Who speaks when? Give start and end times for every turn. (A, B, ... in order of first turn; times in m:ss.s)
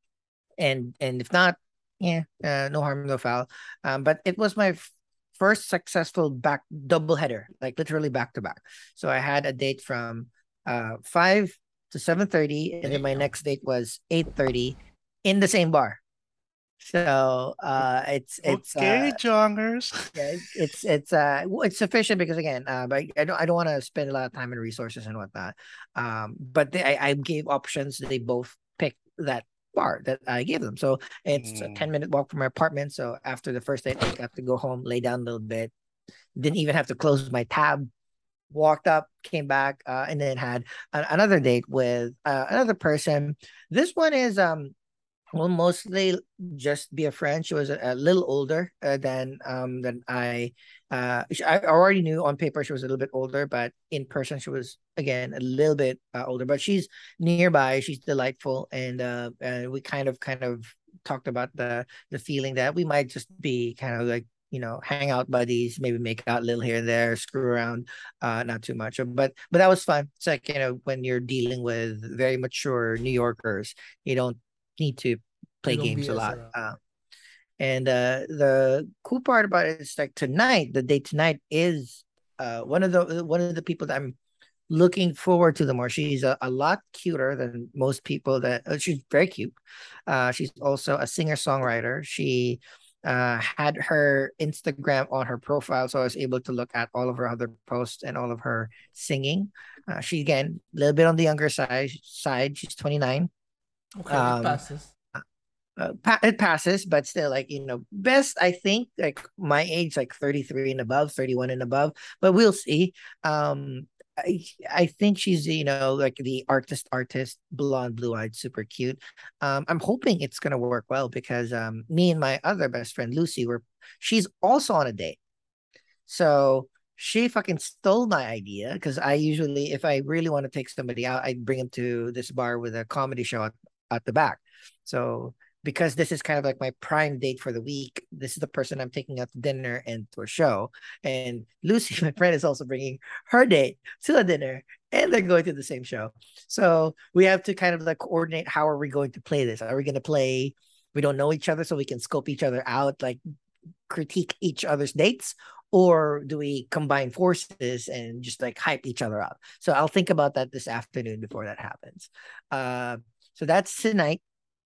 0:00.6-0:16.0 A
0:12.8-0:13.3 B
0:16.8-0:19.2 A
0:18.4-0:20.1 C
0:20.2-0:35.7 A
0:31.3-0:31.9 C
0:36.4-0:37.9 A
0:38.5-0:44.7 A
0:45.3-1:16.8 A
1:15.7-1:16.6 B
1:17.6-1:24.2 A
1:24.7-1:29.6 A
1:30.1-1:43.3 A
1:44.0-1:44.9 B
1:44.1-1:44.6 A
1:45.8-2:05.2 A
2:06.1-2:33.2 A
2:33.9-2:44.2 A